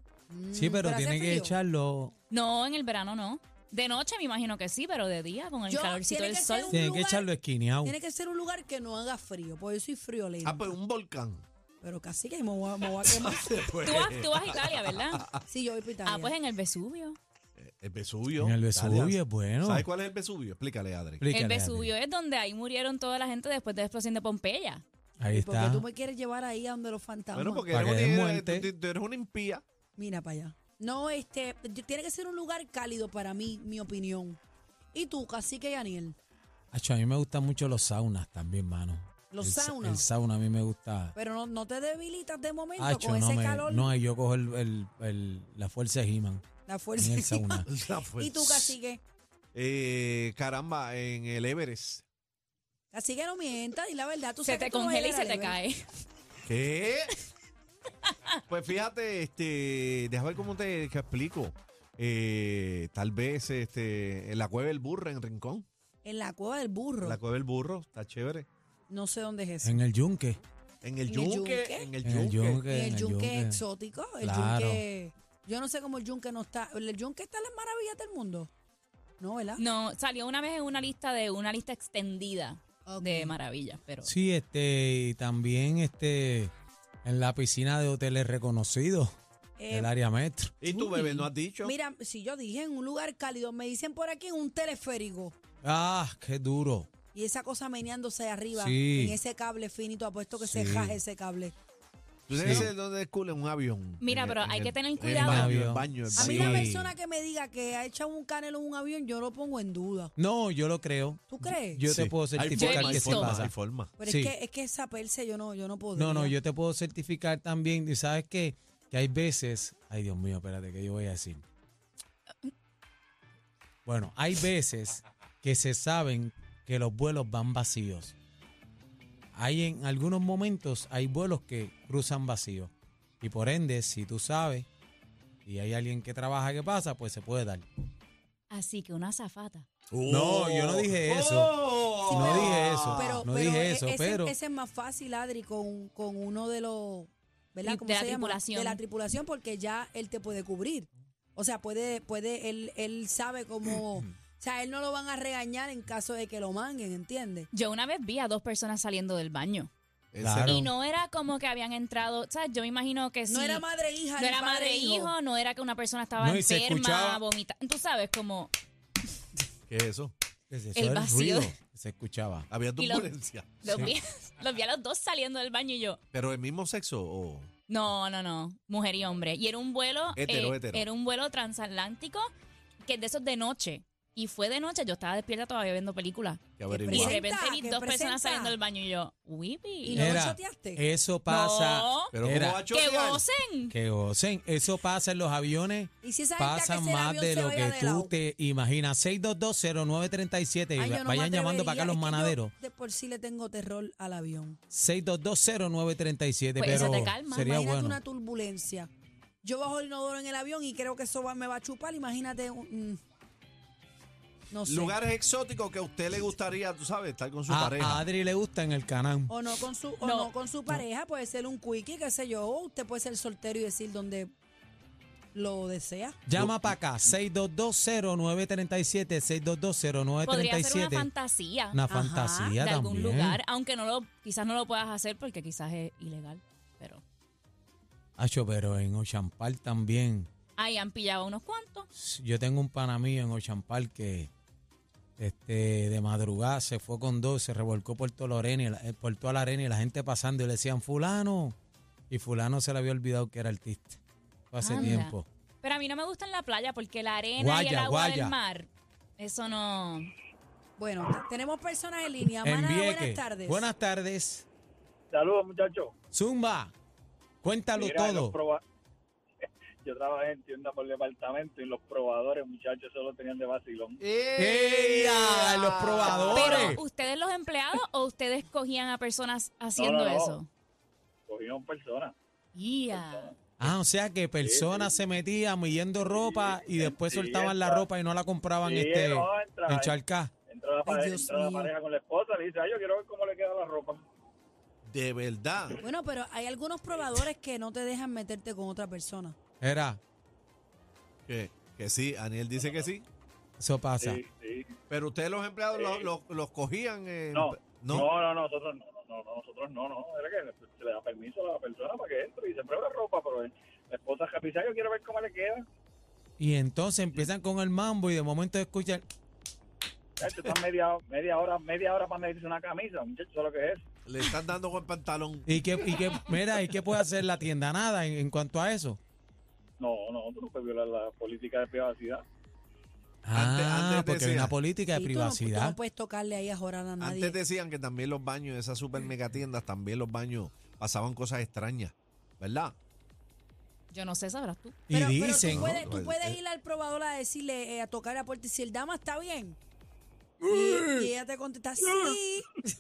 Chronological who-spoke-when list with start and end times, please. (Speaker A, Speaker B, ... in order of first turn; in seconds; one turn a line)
Speaker A: 0.3-1.6
Speaker B: 0.5-2.1
Speaker C: 2.3-6.8
Speaker A: 5.7-7.3
Speaker B: 6.7-8.0
Speaker A: 7.8-10.7
Speaker D: 10.4-11.5
Speaker A: 11.8-13.6
Speaker D: 13.0-15.4
Speaker C: 13.8-15.3
Speaker A: 15.4-16.4
Speaker C: 16.1-17.2
Speaker D: 17.6-21.2
Speaker B: 18.4-19.9
Speaker B: 21.2-21.9
Speaker C: 21.3-24.8
Speaker B: 25.2-25.9
Speaker A: 25.3-27.7
Speaker D: 27.3-29.6
Speaker B: 27.7-28.7
Speaker A: 30.0-34.4
Speaker A: 34.9-36.2
Speaker B: 36.7-41.1
Speaker A: 39.3-40.1
Speaker A: 41.1-43.9
Speaker B: 42.8-46.4
Speaker A: 46.7-49.0
Speaker B: 47.0-47.7
Speaker D: 47.7-48.8
Speaker D: 49.5-52.0
Speaker A: 52.9-55.6
Speaker C: 54.5-55.8
Speaker D: 56.5-57.1
Speaker D: 58.5-65.7
Speaker A: 66.0-67.2
Speaker D: 67.0-68.5
Speaker A: 68.9-69.8
Speaker B: 69.6-70.4
Speaker D: 70.8-72.6
Speaker A: 71.0-78.5
Speaker B: 72.0-73.6
Speaker B: 74.2-74.8
Speaker A: 79.2-79.6
Speaker C: 79.6-84.1
Speaker A: 82.9-83.4
Speaker B: 84.0-86.5
Speaker B: 87.0-89.1
Speaker A: 89.6-89.9
Speaker B: 89.7-90.5
Speaker D: 90.6-91.7
Speaker A: 90.7-95.4
Speaker B: 95.6-96.9
Speaker A: 97.1-101.5
Speaker B: 98.5-99.2
Speaker B: 100.4-101.0
Speaker D: 102.3-106.8
Speaker B: 102.3-102.7
Speaker C: 104.0-105.5
Speaker B: 105.0-107.0
Speaker A: 106.1-110.1
Speaker B: 110.2-114.3
Speaker A: 111.3-111.8
Speaker D: 111.9-113.9
Speaker C: 112.5-113.4
Speaker A: 114.0-116.4
Speaker B: 116.0-121.4
Speaker B: 123.8-128.2
Speaker B: 129.3-134.7
Speaker B: 135.4-137.7
Speaker C: 138.5-139.7
Speaker D: 139.9-143.2
Speaker B: 140.1-141.6
Speaker A: 142.0-157.5
Speaker B: 142.1-144.3
Speaker C: 147.6-148.8
Speaker C: 157.5-159.7
Speaker D: 160.1-160.7
Speaker B: 160.2-160.7
Speaker C: 160.4-163.6
Speaker A: 163.3-165.2
Speaker C: 164.2-168.5
Speaker B: 166.2-167.2
Speaker D: 169.7-170.1
Speaker B: 170.5-172.5
Speaker C: 170.8-171.6
Speaker D: 172.5-173.9
Speaker C: 172.8-176.0
Speaker B: 173.6-173.9
Speaker D: 176.1-177.5
Speaker C: 177.7-182.3
Speaker D: 180.2-180.9
Speaker C: 182.8-190.1
Speaker D: 186.6-187.2
Speaker A: 186.7-188.6
Speaker A: 189.8-190.8
Speaker B: 189.9-192.6
Speaker C: 191.3-192.1
Speaker D: 192.1-193.2
Speaker C: 192.7-193.7
Speaker B: 193.7-202.5
Speaker A: 196.0-198.2
Speaker A: 200.8-204.6
Speaker B: 204.7-208.0
Speaker C: 206.6-207.5
Speaker A: 207.0-208.9
Speaker A: 209.4-213.0
Speaker A: 214.5-215.0
Speaker D: 214.7-218.0
Speaker B: 217.5-219.4
Speaker A: 219.3-224.3
Speaker C: 220.0-220.3
Speaker A: 225.3-226.2
Speaker B: 226.3-231.1
Speaker D: 226.3-227.1
Speaker C: 230.2-231.8
Speaker B: 231.7-233.4
Speaker A: 231.9-232.6
Speaker C: 232.6-237.0
Speaker B: 238.2-240.3
Speaker C: 240.6-241.9
Speaker B: 241.9-244.3
Speaker B: 245.2-251.6
Speaker B: 252.1-254.0
Speaker B: 254.5-255.3
Speaker C: 254.6-260.1
Speaker A: 254.8-255.1
Speaker B: 257.4-258.4
Speaker A: 260.8-263.7
Speaker B: 262.4-264.5
Speaker E: 265.1-265.9
Speaker B: 266.1-266.7
Speaker B: 267.4-268.3
Speaker E: 267.7-268.6
Speaker E: 269.8-274.0
Speaker D: 274.0-276.7
Speaker B: 274.4-276.8
Speaker E: 276.0-276.7
Speaker C: 276.3-280.5
Speaker E: 279.8-280.4
Speaker E: 281.3-282.1
Speaker C: 282.6-283.3
Speaker E: 282.9-283.3
Speaker B: 283.6-290.3
Speaker E: 284.4-285.0
Speaker E: 286.1-287.8
Speaker E: 288.6-289.9
Speaker E: 290.5-294.0
Speaker A: 290.9-291.7
Speaker D: 294.9-295.8
Speaker A: 295.8-299.4
Speaker B: 299.6-300.0
Speaker D: 301.3-303.1
Speaker E: 302.5-302.9
Speaker B: 303.6-304.2
Speaker E: 304.0-304.7
Speaker D: 304.9-308.1
Speaker E: 305.7-306.1
Speaker E: 307.3-315.6
Speaker B: 316.4-319.0
Speaker E: 320.2-323.8
Speaker D: 324.1-325.5
Speaker B: 325.5-329.0
Speaker E: 329.8-332.2
Speaker B: 333.2-335.8
Speaker D: 333.3-334.5
Speaker A: 334.9-337.4
Speaker D: 337.0-342.8
Speaker C: 343.9-344.8
Speaker B: 344.9-346.4
Speaker A: 344.9-349.6
Speaker D: 345.4-346.2
Speaker A: 350.5-352.6
Speaker B: 350.5-351.1